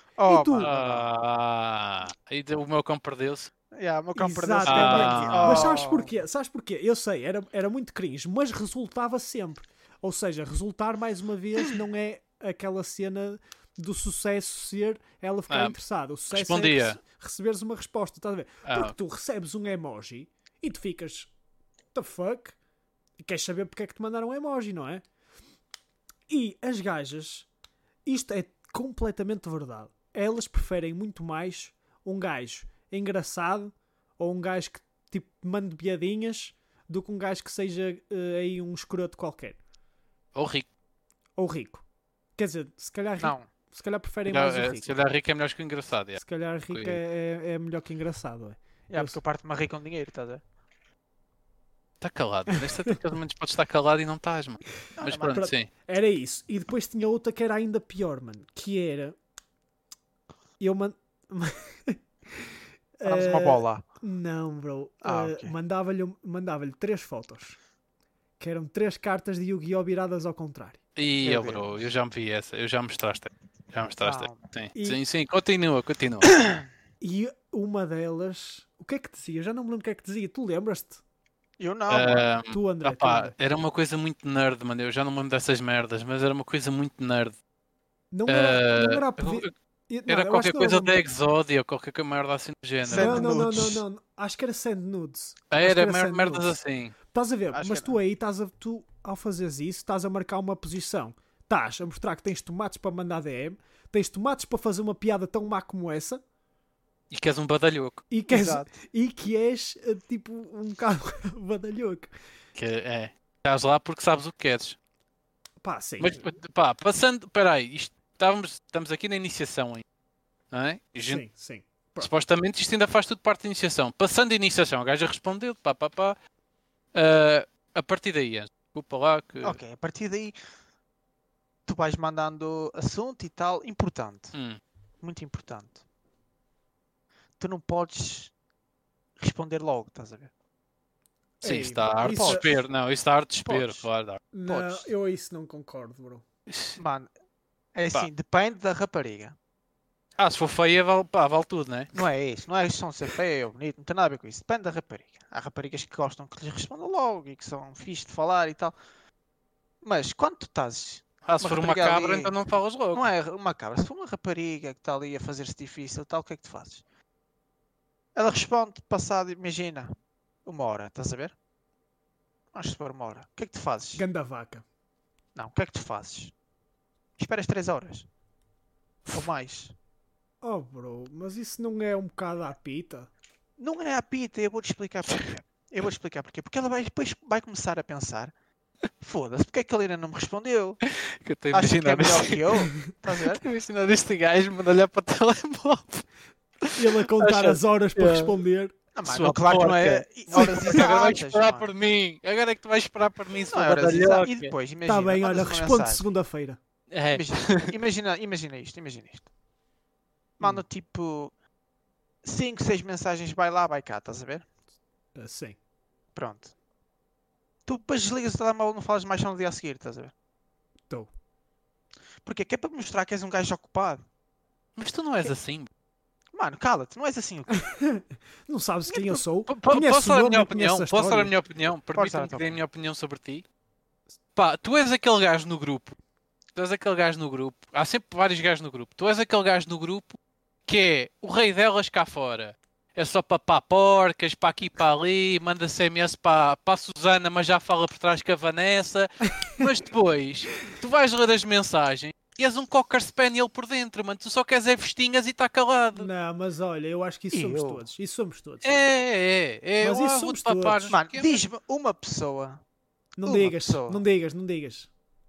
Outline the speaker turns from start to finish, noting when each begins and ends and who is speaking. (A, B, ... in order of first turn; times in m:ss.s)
0:00.2-0:01.1 A
0:00.2-0:00.7 B
0:00.6-0:03.5 C
0:03.7-0:06.1 A
0:04.2-0:21.3 B
0:04.7-0:05.8 C
0:15.5-0:15.8 C
0:16.3-0:17.0 C
0:18.6-0:18.9 C
0:21.9-0:22.6 B
0:23.2-0:25.0 B
0:26.3-0:27.5 B
0:28.0-0:39.6 B
0:40.3-0:40.7 C
0:41.4-0:41.8 B
0:42.4-0:45.0 B
0:43.2-0:43.5 A
0:44.3-0:47.0 C
0:46.2-0:49.2 B
0:48.9-0:50.4 A
0:52.0-0:55.7 C
0:52.5-0:53.0 B
0:55.0-0:55.5 A
0:55.3-0:59.2 B
1:00.6-1:07.6 B
1:03.0-1:03.8 A
1:05.0-1:05.5 A
1:08.4-1:10.8 B
1:11.0-1:16.3 C
1:11.2-1:11.7 A
1:14.0-1:14.4 A
1:16.3-1:16.6 A
1:17.0-1:21.0 B
1:21.6-1:22.3 A
1:21.9-1:27.4 C
1:22.5-1:23.3 B
1:28.1-1:31.0 B
1:28.3-1:29.5 C
1:30.1-1:33.3 C
1:32.8-1:33.8 A
1:32.9-1:36.6 B
1:35.5-1:36.9 C
1:37.1-1:46.2 B
1:37.5-1:38.0 A
1:47.1-1:48.0 C
1:48.1-1:52.1 B
1:48.3-1:48.7 A
1:52.5-1:54.8 C
1:55.6-1:56.2 B
1:56.0-1:59.8 C
2:00.5-2:01.2 C
2:01.0-2:02.1 B
2:02.0-2:06.2 C
2:06.9-2:09.6 C
2:09.4-2:10.4 A
2:11.6-2:14.3 A
2:14.3-2:14.6 C
2:15.0-2:15.8 A
2:17.4-2:18.3 A
2:19.2-2:20.3 A
2:21.4-2:22.5 B
2:21.4-2:24.2 C
2:22.0-2:22.5 A
2:23.4-2:23.9 A
2:24.3-2:26.2 B
2:24.5-2:24.9 A
2:26.5-2:26.8 C
2:26.8-2:27.1 A
2:27.7-2:29.4 A
2:30.2-2:32.0 C
2:31.9-2:38.7 A
2:39.8-2:42.3 A
2:41.2-2:43.1 C
2:42.9-2:46.8 A
2:48.1-2:49.9 A
2:50.4-2:51.3 A
2:52.5-2:54.0 A
2:53.9-2:54.6 B
2:55.4-2:56.3 A
2:57.2-2:58.1 A
2:59.1-2:59.7 A
3:00.4-3:03.1 B
3:03.6-3:08.3 A
3:09.0-3:10.8 A
3:10.8-3:16.0 C
3:11.5-3:13.4 A
3:16.6-3:18.3 C
3:16.7-3:18.7 B
3:18.9-3:21.7 A
3:19.0-3:24.5 C
3:20.4-3:20.6 B
3:23.5-3:26.0 A
3:24.8-3:26.6 B
3:26.9-3:27.7 C
3:27.1-3:29.3 A
3:30.4-3:31.3 A
3:32.2-3:34.4 A
3:35.1-3:35.6 B
3:36.1-3:36.5 A
3:37.6-3:40.1 A
3:42.2-3:44.0 A
3:44.8-3:45.7 C
3:46.3-3:47.6 A
3:47.6-3:51.3 B
3:49.5-3:53.4 C
3:51.9-3:52.6 A
3:54.3-3:56.0 C
3:56.5-4:16.1 C
4:09.4-4:09.7 B
4:16.0-4:18.7 B
4:17.3-4:17.8 A
4:18.6-4:21.4 C
4:19.8-4:21.0 B
4:20.9-4:22.6 A
4:23.2-4:24.9 B
4:23.2-4:24.0 A